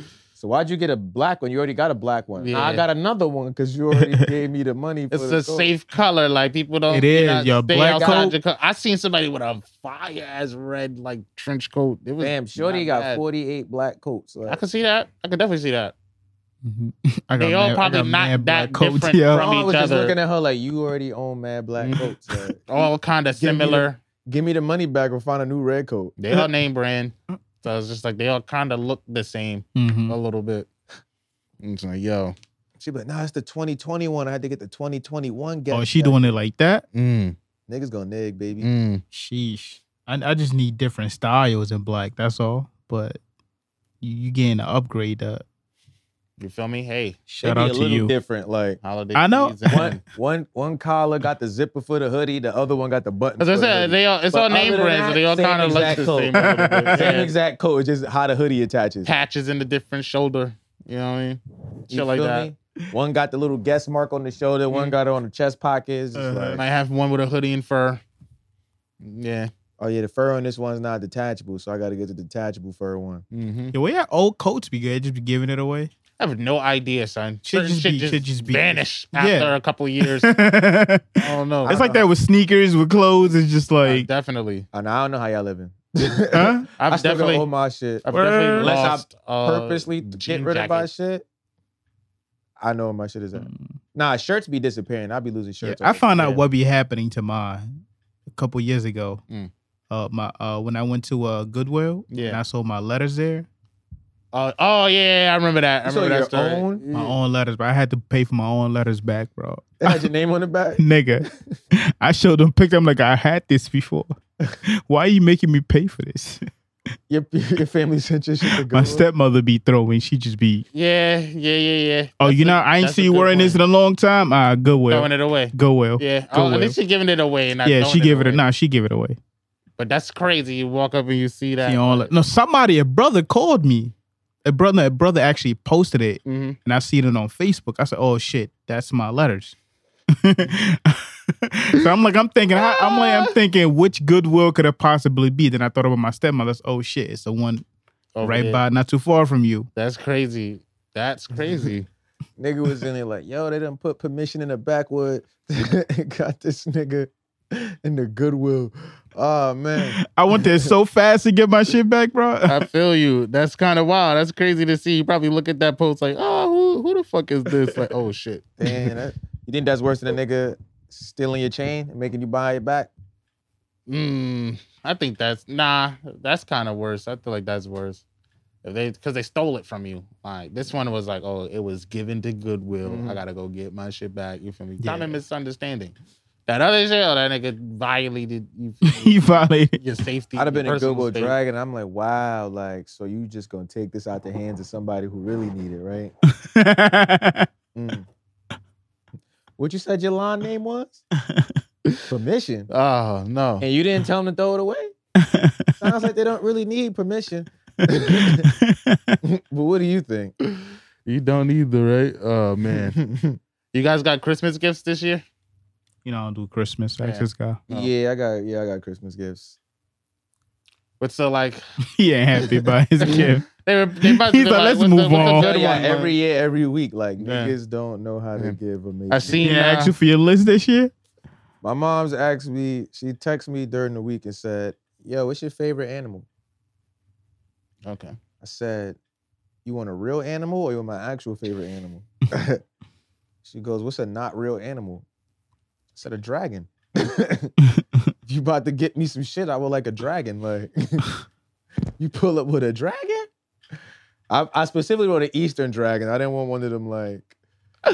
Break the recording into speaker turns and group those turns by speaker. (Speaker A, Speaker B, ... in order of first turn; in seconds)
Speaker A: 0.3-5.7, 7.8-8.3, 12.2-14.6, 19.3-22.6, 23.4-26.2, 32.8-36.3, 37.7-38.7, 47.4-48.8, 49.7-59.1, 61.9-66.6, 69.8-73.2, 81.7-82.1, 84.7-91.2, 92.6-96.4, 105.8-106.8, 109.8-111.6, 117.1-119.0, 152.4-160.7, 168.6-172.9, 182.8-183.2, 190.3-196.1, 197.7-198.1, 199.6-201.1, 202.1-202.7, 203.6-204.9, 205.8-208.5, 209.2-210.3, 212.8-213.4, 217.7-219.6, 225.1-229.4, 231.6-236.2, 238.4-239.0, 239.6-242.6, 243.4-245.0, 245.9-247.5, 248.2-251.2, 252.0-253.3, 254.3-257.3
Speaker B: 2.4-2.8, 5.1-13.2, 14.4-15.9, 17.4-20.1, 21.8-22.1, 22.6-24.0, 26.2-30.7, 31.6-32.3, 36.9-37.4, 38.6-39.0, 46.4-47.2, 48.8-50.0, 53.4-57.3, 59.0-62.5, 64.7-65.0, 66.5-68.0, 69.0-69.5, 73.3-73.7, 76.2-80.3, 81.2-81.8, 83.8-84.7, 86.8-87.5, 88.0-90.9, 102.1-102.4, 104.3-107.2, 120.7-123.6, 124.9-128.4, 129.8-132.1, 136.2-136.6, 142.6-143.3, 148.1-148.6, 149.7-151.9, 162.5-168.4, 173.9-178.0, 178.6-185.9, 186.5-189.1, 189.8-191.3, 202.7-203.6, 211.0-213.0, 213.7-215.2, 217.0-217.9, 221.0-221.6, 223.0-226.1, 227.2-227.5, 229.1-229.9, 237.8-238.2
Speaker C: 6.9-8.3, 16.6-19.5, 29.8-30.2, 35.7-36.8, 39.1-43.2, 44.0-45.4, 47.3-48.1, 49.1-50.0, 56.3-57.1, 66.1-66.6, 73.7-75.9, 77.4-84.1, 86.3-86.7, 88.1-88.9, 93.3-93.7, 95.6-97.7, 98.3-99.2, 99.9-103.5, 106.9-110.1, 110.8-116.5, 118.5-120.7, 122.2-126.8, 127.6-129.2, 131.6-133.9, 134.4-139.6, 140.2-147.6, 148.2-149.7, 159.8-162.6, 168.6-168.9, 184.8-185.2, 188.8-189.8, 196.3-197.5, 205.2-205.9, 207.8-209.2, 216.0-217.6, 221.9-223.4, 224.0-225.9, 229.4-230.9